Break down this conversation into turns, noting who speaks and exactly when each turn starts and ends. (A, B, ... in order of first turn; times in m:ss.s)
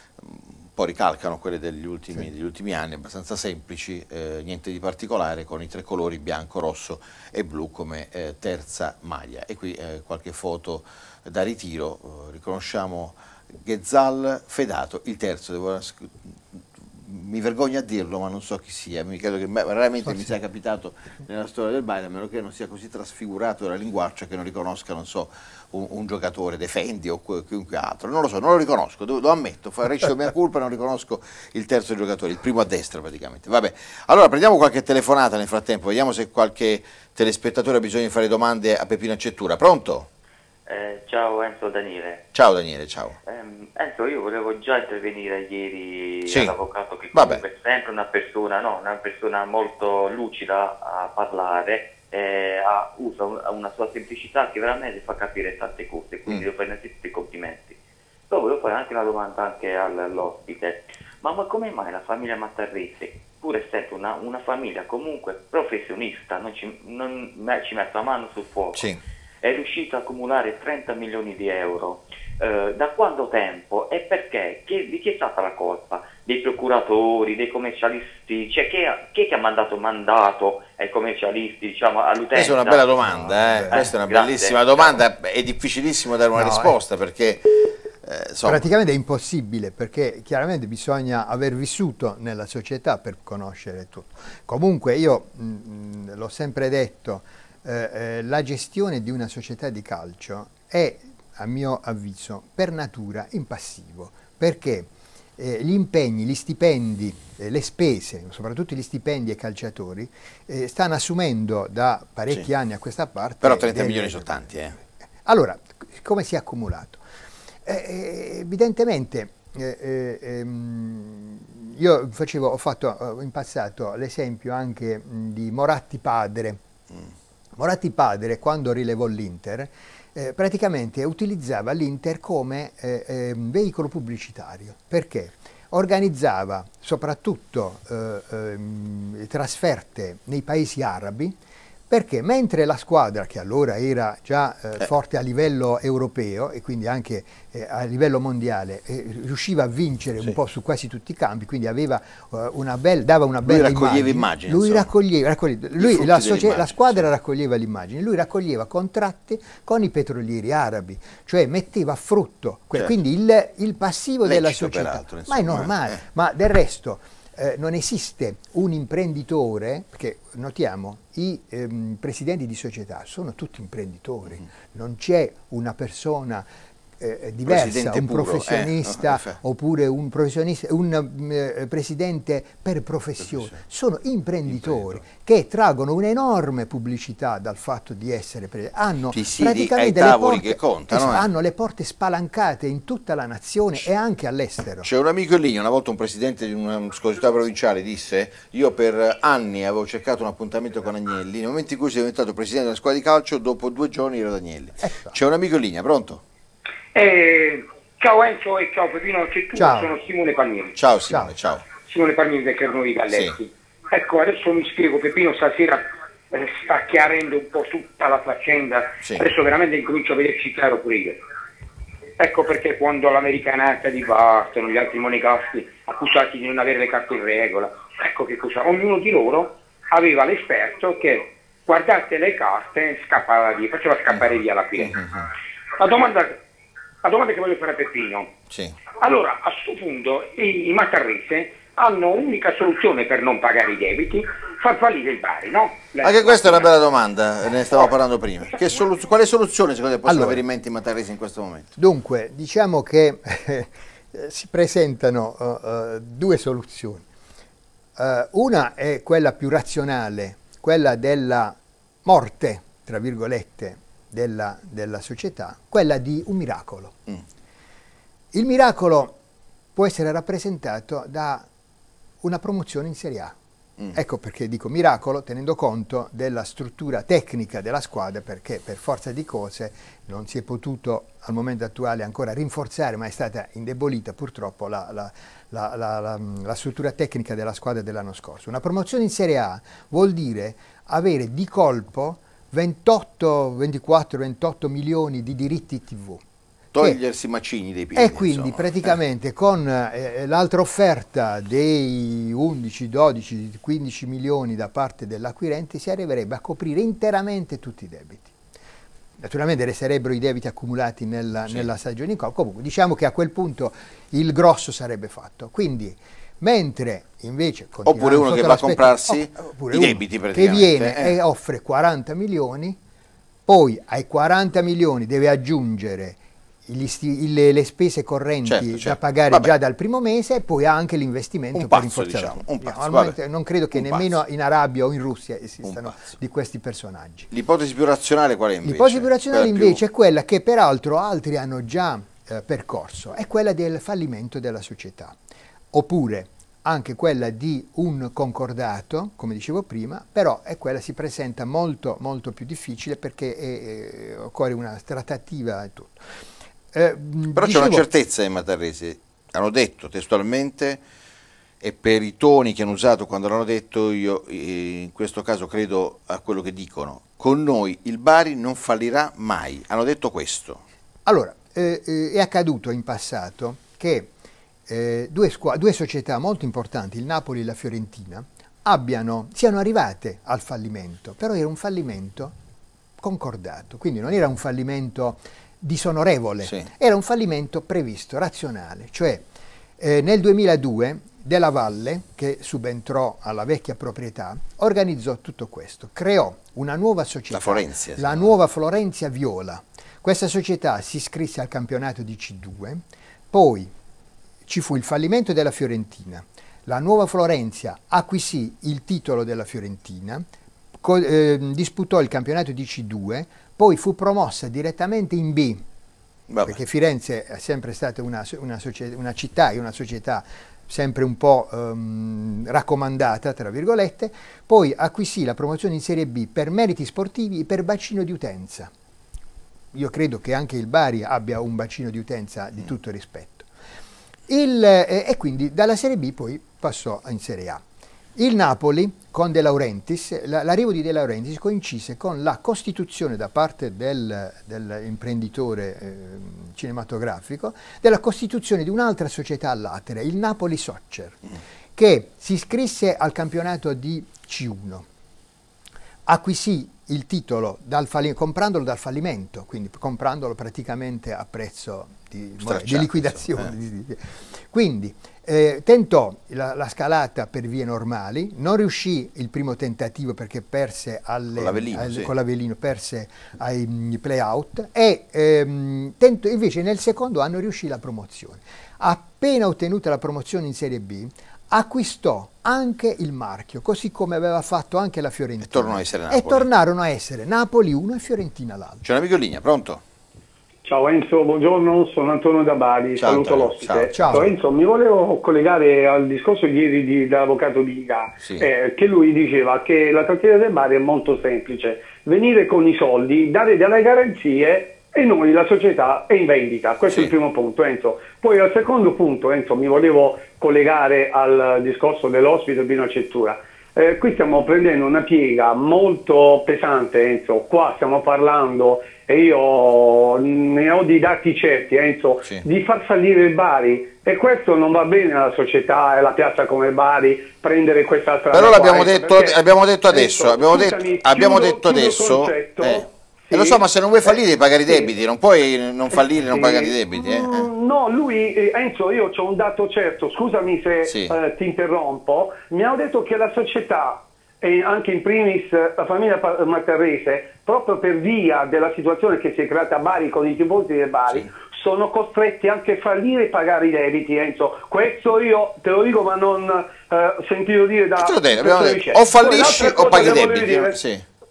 0:00.2-0:40.1 A
0:40.7-0:42.2 B
0:42.3-0:43.2 A
0:43.2-0:57.8 B
0:46.3-0:46.5 A
0:47.1-0:47.4 A
0:58.3-1:08.8 B
1:08.7-1:09.0 A
1:09.4-1:22.8 B
1:22.3-1:28.7 A
1:23.0-1:23.9 C
1:23.7-1:25.0 B
1:26.3-1:26.8 C
1:28.4-1:57.0 C
1:53.4-1:54.8 A
1:57.6-2:06.6 C
2:07.6-2:21.3 C
2:21.9-2:56.4 C
2:33.4-2:34.9 A
2:35.8-2:37.0 A
2:44.2-2:46.0 A
2:57.0-3:14.9 C
2:57.4-2:59.4 A
3:04.4-3:05.0 A
3:09.1-3:11.2 A
3:14.8-3:26.2 A
3:24.8-3:25.2 C
3:26.9-3:30.7 D
3:29.5-3:29.9 C
3:30.8-3:31.6 A
3:31.1-3:31.3 C
3:31.8-3:41.2 D
3:33.1-3:33.4 A
3:42.2-3:55.0 D
3:54.8-3:55.3 A
3:55.7-3:56.4 D
3:57.0-3:58.3 D
3:58.5-3:58.8 A
3:59.0-4:06.7 D
4:06.0-4:11.7 A
4:10.0-4:10.4 C
4:11.8-4:17.0 C
4:18.0-4:27.0 C
4:28.3-4:29.2 C
4:29.8-4:31.5 C
4:32.2-4:33.3 C
4:33.9-4:56.2 C
4:56.7-4:58.6 A
4:58.0-5:08.3 C
5:09.2-5:22.8 C
5:17.8-5:21.2 A
5:23.5-5:37.3 C
5:28.4-5:29.5 A
5:31.5-5:33.2 A
5:33.7-5:34.2 A
5:35.6-5:36.1 A
5:37.3-5:39.8 A
5:38.6-5:45.2 C
5:45.7-5:56.0 C
5:56.7-5:57.9 C
5:57.3-6:00.8 A
6:01.6-6:10.6 A
6:11.0-6:14.1 C
6:14.7-6:22.3 C
6:23.0-6:29.2 C
6:29.8-6:43.7 C
6:37.3-6:38.3 A
6:44.4-6:50.2 C
6:50.8-6:55.6 C
6:56.3-6:56.6 A
6:56.4-7:08.7 C
7:09.7-7:13.5 C
7:14.3-7:17.6 C
7:18.2-7:31.2 C
7:31.8-7:34.8 C
7:36.0-8:08.8 C
7:42.4-7:43.5 A
7:51.3-7:52.1 A
8:05.4-8:06.5 A
8:08.8-8:09.8 A
8:10.6-8:53.6 E
8:13.0-8:14.2 A
8:13.9-8:14.3 C
8:18.2-8:18.5 A
8:48.3-8:57.5 A
8:56.3-9:20.8 E
9:00.8-9:01.2 A
9:18.0-9:21.0 A